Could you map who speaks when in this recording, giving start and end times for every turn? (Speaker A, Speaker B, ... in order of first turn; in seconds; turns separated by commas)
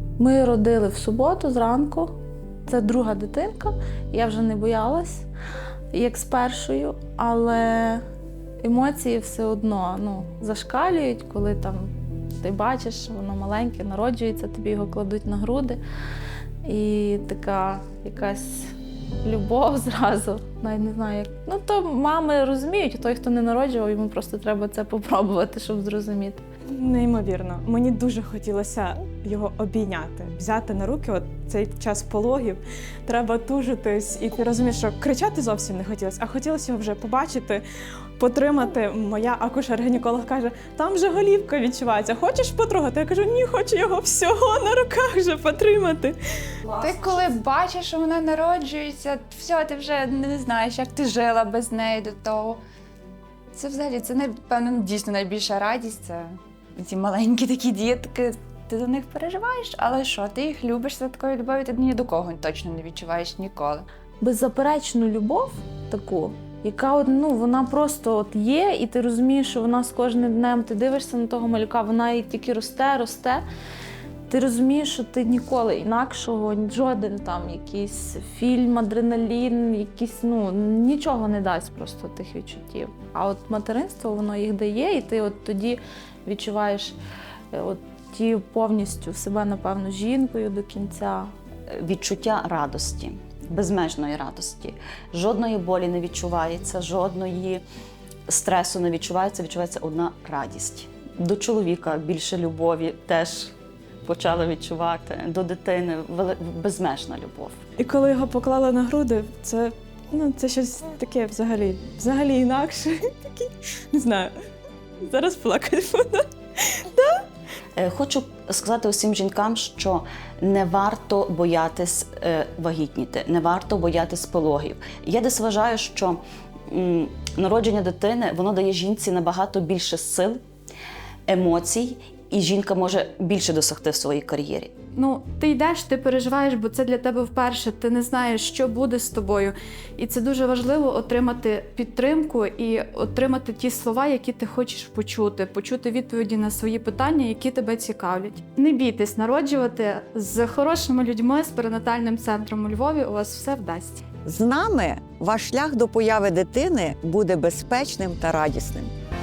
Speaker A: 0.2-2.1, Speaker A: 2.6-5.2, Speaker A: 5.9-8.0, Speaker A: 8.6-15.8, Speaker A: 16.6-26.4, Speaker B: 26.7-37.6, Speaker B: 38.2-46.1, Speaker C: 46.7-52.6, Speaker C: 53.5-63.8, Speaker A: 64.2-73.4, Speaker A: 74.3-87.0, Speaker A: 87.5-91.3, Speaker D: 91.7-97.6, Speaker D: 98.3-103.5, Speaker D: 104.0-107.6, Speaker B: 107.8-114.3, Speaker B: 115.0-117.2, Speaker D: 117.8-130.4, Speaker D: 131.3-134.7, Speaker E: 134.9-154.0, Speaker F: 154.2-158.9